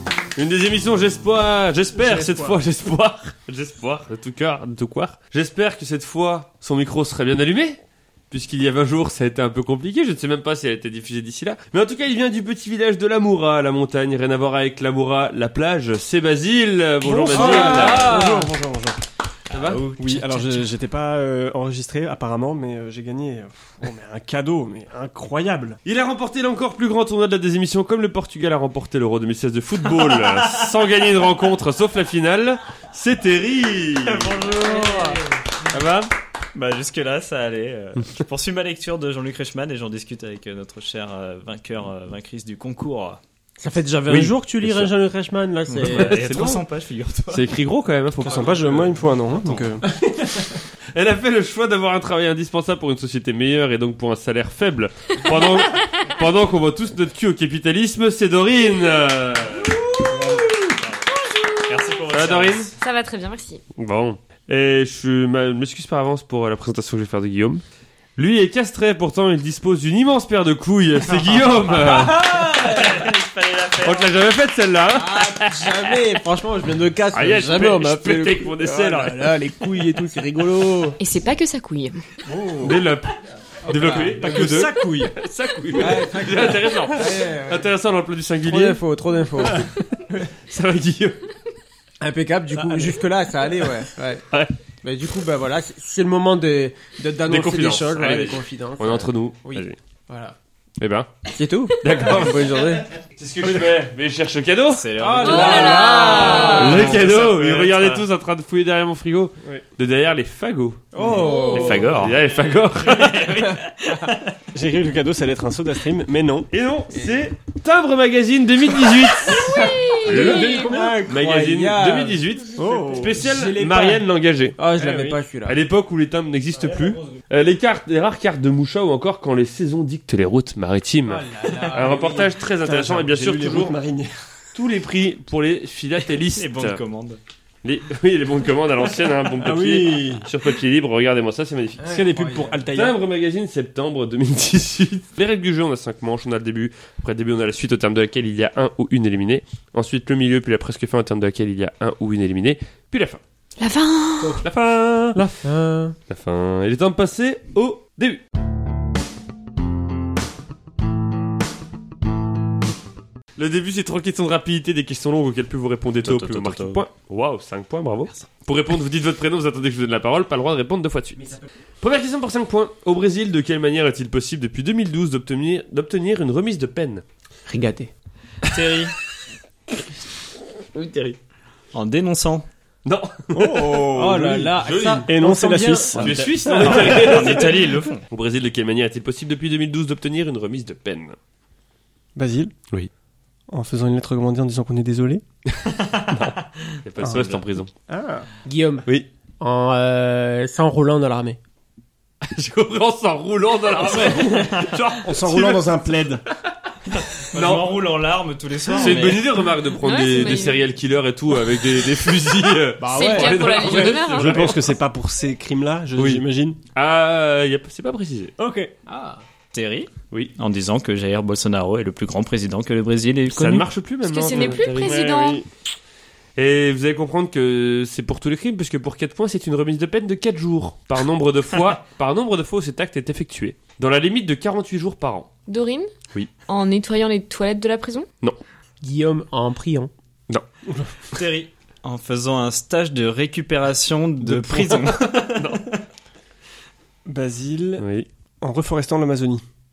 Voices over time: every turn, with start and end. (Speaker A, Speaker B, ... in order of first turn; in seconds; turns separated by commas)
Speaker A: 0.3-18.2, Speaker B: 17.0-19.0, Speaker C: 17.3-18.5, Speaker D: 17.6-18.4, Speaker C: 19.5-20.7, Speaker A: 19.5-19.8, Speaker B: 20.0-25.8, Speaker A: 25.9-35.1, Speaker C: 30.1-30.6, Speaker C: 34.0-35.4, Speaker A: 35.6-36.1, Speaker C: 36.5-43.2, Speaker D: 43.6-46.2, Speaker A: 44.1-44.9, Speaker C: 45.7-47.5, Speaker A: 45.9-46.7, Speaker A: 47.3-49.0, Speaker B: 48.2-49.9, Speaker C: 49.4-49.7, Speaker A: 50.9-60.0, Speaker B: 60.2-60.5, Speaker C: 60.7-61.1, Speaker C: 61.6-62.8, Speaker A: 62.1-62.7, Speaker E: 62.8-63.6, Speaker A: 63.8-67.6, Speaker A: 68.2-72.5, Speaker C: 71.5-74.1, Speaker D: 71.9-73.1, Speaker A: 73.8-75.8, Speaker D: 74.9-81.0, Speaker A: 77.1-79.4, Speaker E: 81.0-82.0, Speaker B: 82.2-82.8, Speaker A: 82.6-88.8, Speaker D: 83.7-84.4, Speaker B: 83.7-85.2, Speaker D: 85.7-87.7, Speaker D: 88.5-89.7, Speaker A: 89.5-91.3, Speaker D: 92.0-94.2, Speaker B: 92.5-93.0, Speaker D: 94.8-100.3, Speaker A: 97.3-98.2, Speaker C: 98.0-98.4, Speaker A: 98.8-99.8, Speaker A: 100.8-101.1, Speaker D: 101.3-102.9, Speaker A: 101.8-104.9, Speaker C: 104.7-108.1, Speaker D: 105.0-107.0, Speaker E: 105.2-106.8, Speaker A: 105.4-110.9, Speaker D: 110.9-112.0, Speaker E: 111.2-111.8, Speaker C: 111.5-114.4, Speaker A: 111.5-113.4, Speaker B: 114.5-116.5, Speaker A: 116.5-124.6, Speaker D: 119.2-124.0, Speaker E: 119.5-120.7, Speaker B: 120.1-121.0, Speaker B: 122.6-123.3, Speaker D: 124.6-125.6, Speaker B: 124.8-125.2, Speaker A: 125.4-133.8, Speaker D: 131.1-132.3, Speaker B: 131.8-134.1, Speaker A: 134.5-136.8, Speaker C: 136.0-137.2, Speaker A: 137.6-142.0, Speaker B: 139.4-140.3, Speaker D: 141.8-142.6, Speaker B: 141.9-143.0, Speaker A: 142.7-153.2, Speaker E: 153.6-154.4, Speaker A: 154.2-155.3, Speaker D: 155.1-156.0, Speaker A: 156.1-158.2, Speaker A: 163.3-177.0, Speaker C: 166.0-166.8, Speaker D: 177.5-177.9, Speaker C: 178.4-178.9, Speaker C: 181.7-182.5, Speaker A: 182.8-183.8, Speaker B: 183.3-187.5, Speaker D: 183.7-186.3, Speaker A: 184.6-185.1, Speaker A: 185.9-191.2, Speaker C: 186.5-188.1, Speaker B: 192.2-192.5, Speaker B: 193.5-195.2, Speaker C: 195.8-197.3, Speaker A: 196.1-197.7, Speaker B: 197.0-198.3, Speaker D: 198.4-198.9, Speaker D: 199.4-201.4, Speaker A: 202.2-206.2, Speaker B: 203.8-204.5, Speaker C: 204.3-204.8, Speaker B: 205.0-206.2, Speaker C: 206.9-209.5, Speaker A: 207.0-207.9, Speaker A: 208.7-214.7, Speaker E: 209.8-210.7, Speaker D: 212.8-213.6, Speaker E: 212.9-214.5, Speaker B: 213.6-216.6, Speaker A: 216.0-216.2, Speaker A: 216.8-218.3, Speaker B: 218.4-218.7, Speaker D: 218.9-219.2, Speaker C: 219.5-223.7, Speaker A: 223.3-225.1, Speaker E: 224.0-225.4, Speaker C: 224.3-225.0, Speaker B: 224.8-225.4, Speaker A: 226.4-235.3, Speaker E: 235.5-235.9, Speaker E: 236.5-238.1, Speaker D: 238.8-239.9, Speaker B: 240.7-241.0, Speaker C: 241.1-245.6, Speaker B: 244.2-244.9, Speaker A: 245.3-245.7, Speaker B: 247.1-247.9, Speaker A: 247.8-248.1, Speaker B: 248.4-249.4